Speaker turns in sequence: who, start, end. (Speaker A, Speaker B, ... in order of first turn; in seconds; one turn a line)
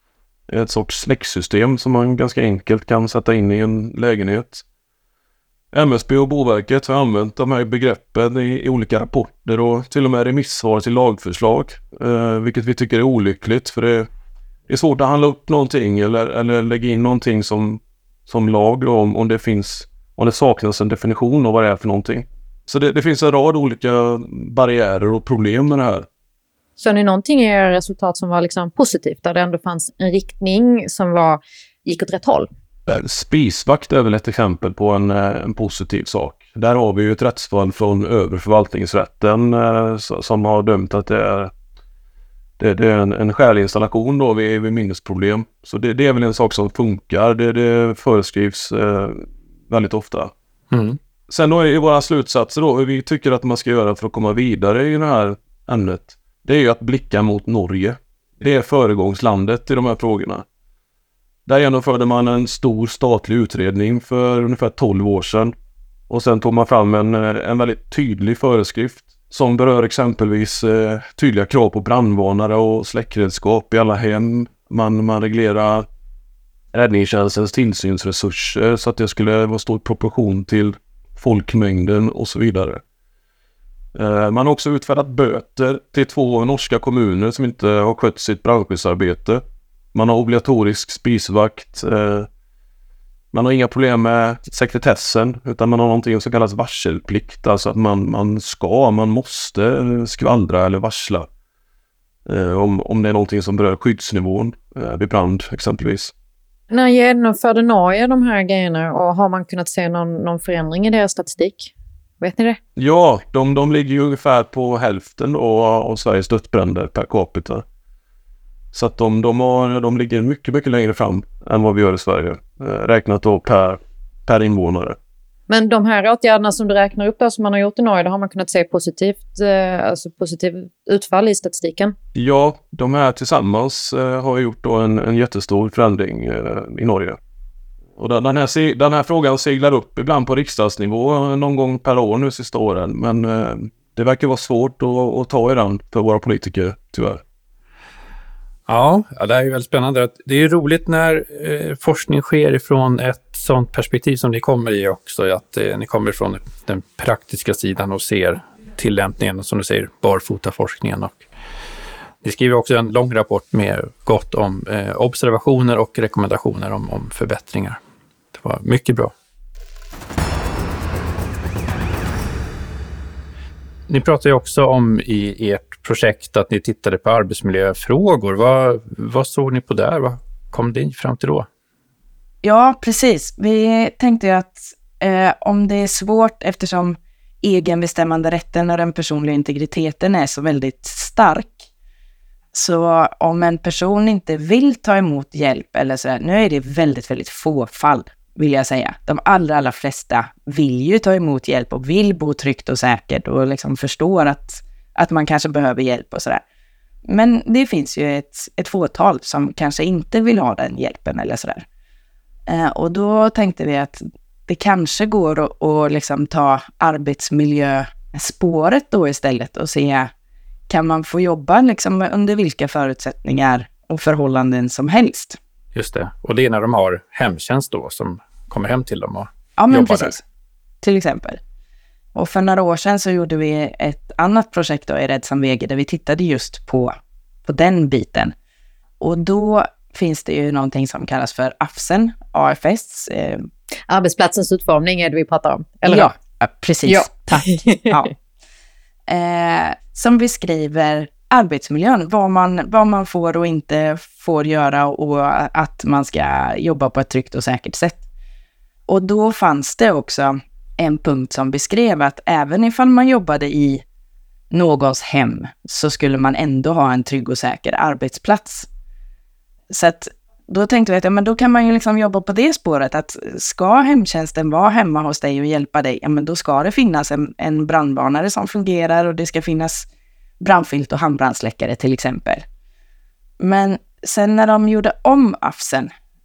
Speaker A: 0.5-4.6
Speaker A: 5.7-14.1
Speaker A: 14.7-26.1
Speaker B: 26.8-32.5
Speaker A: 32.9-41.5
Speaker A: 42.6-50.3
Speaker C: 50.7-51.0
Speaker A: 51.3-60.4
Speaker A: 61.5-65.5
Speaker A: 66.1-75.8
Speaker A: 76.7-82.8
Speaker A: 84.0-89.4
Speaker A: 89.9-92.3
Speaker A: 93.3-101.3
Speaker A: 102.2-106.1
Speaker B: 106.7-112.6
Speaker A: 112.8-117.6
Speaker A: 118.7-125.0
Speaker B: 125.5-131.9
Speaker A: 132.1-137.2
Speaker A: 138.0-147.2
Speaker C: 148.7-161.2
Speaker C: 162.2-167.8
Speaker C: 168.3-169.1
Speaker C: 173.9-181.5
Speaker D: 182.4-191.6
Speaker D: 192.5-206.4
Speaker D: 207.1-211.7
Speaker D: 212.5-220.1
Speaker D: 220.7-225.4
Speaker C: 225.7-230.1
Speaker D: 229.6-230.2
Speaker D: 230.8-231.4
Speaker D: 232.1-238.3
Speaker D: 239.0-243.5
Speaker B: 243.9-246.1
Speaker D: 245.8-248.1
Speaker B: 246.8-248.1
Speaker D: 249.1-258.0
Speaker D: 258.9-263.8
Speaker D: 264.5-268.7
Speaker D: 269.7-279.9
Speaker D: 280.4-282.4
Speaker D: 283.4-285.9